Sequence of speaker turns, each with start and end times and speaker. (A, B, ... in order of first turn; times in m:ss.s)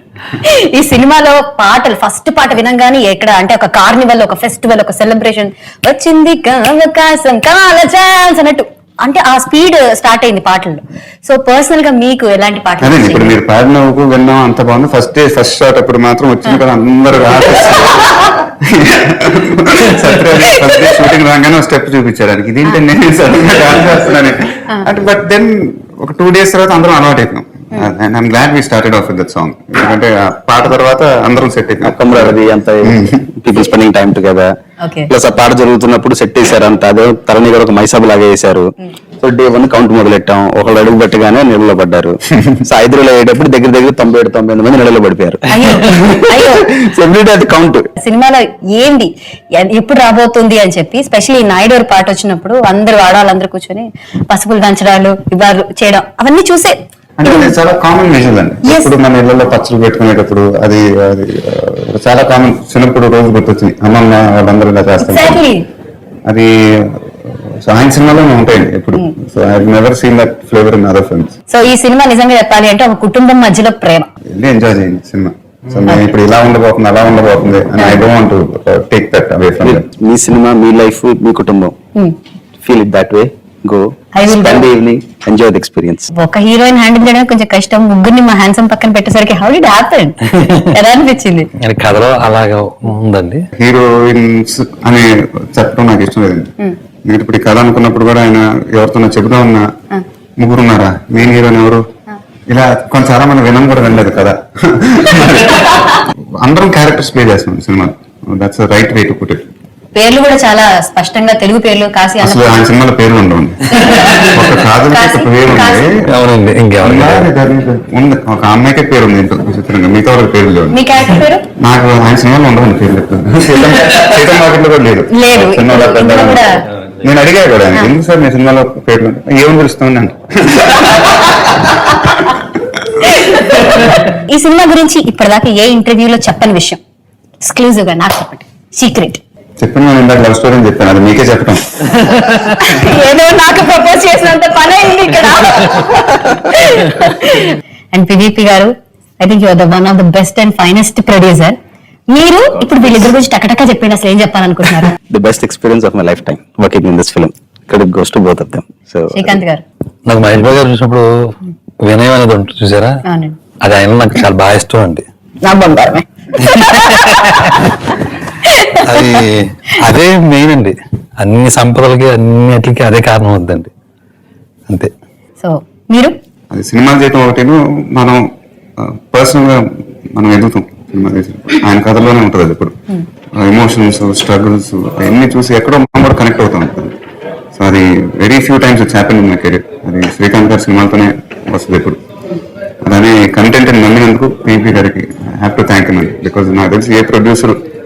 0:00.4-0:13.4 A
0:12.8-0:33.2 B
0:17.7-0:18.3 A
0:20.7-0:21.0 A
0:31.8-0:34.5 C
0:34.8-0:35.1 A
0:35.1-0:47.9 C
0:45.5-0:46.7 A
0:48.0-0:57.5 A
0:57.2-1:05.4 B
0:58.6-0:58.9 A
1:05.0-1:05.6 A
1:06.2-1:11.4 B
1:11.5-1:14.1 A
1:14.3-1:19.9 B
1:17.8-1:18.1 A
1:19.6-1:21.7 C
1:22.6-1:26.1 C
1:24.1-1:24.7 A
1:26.1-1:30.2 A
1:30.3-1:30.6 D
1:30.7-1:31.5 A
1:31.6-1:33.4 D
1:33.6-1:36.5 B
1:37.0-1:39.6 B
1:40.4-1:41.8 B
1:42.5-1:49.5 B
1:45.2-1:45.9 A
1:49.9-1:52.6 A
1:52.2-1:56.1 B
1:53.7-1:56.0 A
1:56.1-1:57.3 D
1:56.8-2:00.8 B
2:00.7-2:01.4 A
2:01.6-2:12.4 B
2:05.1-2:06.6 A
2:13.0-2:16.8 A
2:17.4-2:19.2 A
2:19.6-2:21.8 B
2:22.3-2:31.6 A
2:32.1-2:34.9 A
2:35.1-2:39.4 C
2:39.1-2:39.6 A
2:40.1-2:41.3 D
2:41.8-2:42.9 D
2:43.0-2:43.4 A
2:43.6-2:45.0 D
2:45.4-2:47.8 A
2:46.5-2:47.7 D
2:48.4-2:49.2 A
2:48.8-2:53.7 D
2:55.4-2:56.1 A
2:56.5-2:58.2 B
2:58.8-3:02.7 B
3:03.4-3:07.0 B
3:07.5-3:12.0 B
3:12.8-3:17.6 B